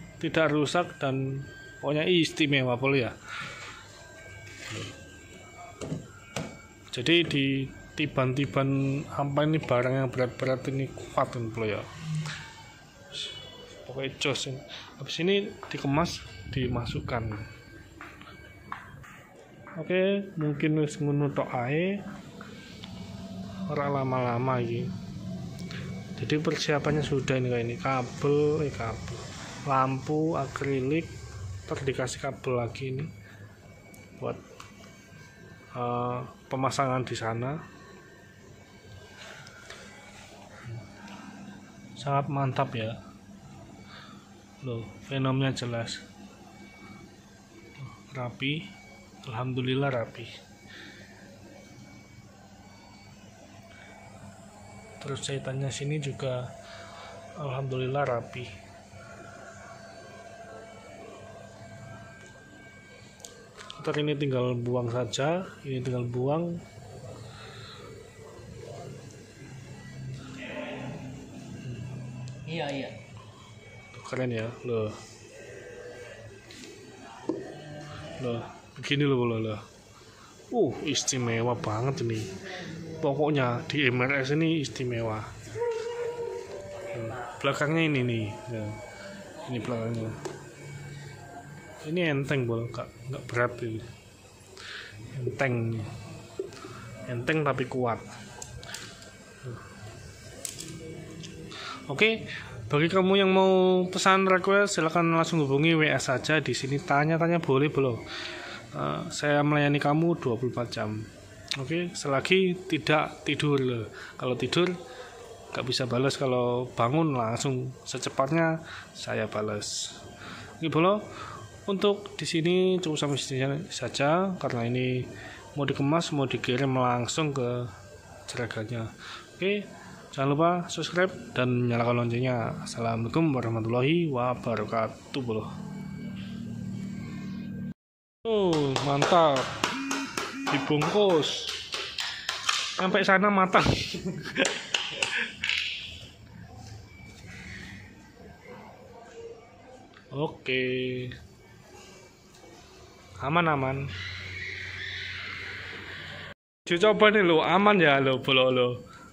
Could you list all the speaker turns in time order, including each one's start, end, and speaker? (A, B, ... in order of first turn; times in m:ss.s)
0:00.2-0:03.2 A
0:06.9-0:11.9 A
0:13.8-0:17.5 A
0:19.8-0:22.0 A
0:23.7-0:24.9 A
0:26.2-0:31.2 A
0:31.7-0:33.1 A
0:35.7-0:37.6 A
0:42.0-0:43.0 A
0:44.6-0:46.0 A
0:47.8-0:48.7 A
0:49.2-0:50.4 A
0:55.0-0:56.5 A
0:57.4-0:58.5 A
1:03.8-1:06.6 A
1:12.5-1:12.9 A
1:13.9-1:15.0 A
1:18.2-1:19.6 A
1:20.5-1:22.4 A
1:23.0-1:25.4 A
1:26.9-1:28.8 A
1:29.4-1:30.2 A
1:31.8-1:33.9 A
1:35.1-1:35.9 A
1:37.1-1:38.1 A
1:41.9-1:48.0 A
1:48.7-1:54.8 A
1:55.5-2:00.0 A
2:00.6-2:01.0 A
2:01.7-2:07.7 A
2:08.3-2:15.5 A
2:18.2-2:19.6 A
2:20.5-2:21.6 A
2:22.8-2:25.2 A
2:30.1-2:31.2 A
2:33.2-2:33.9 A
2:36.6-2:38.8 A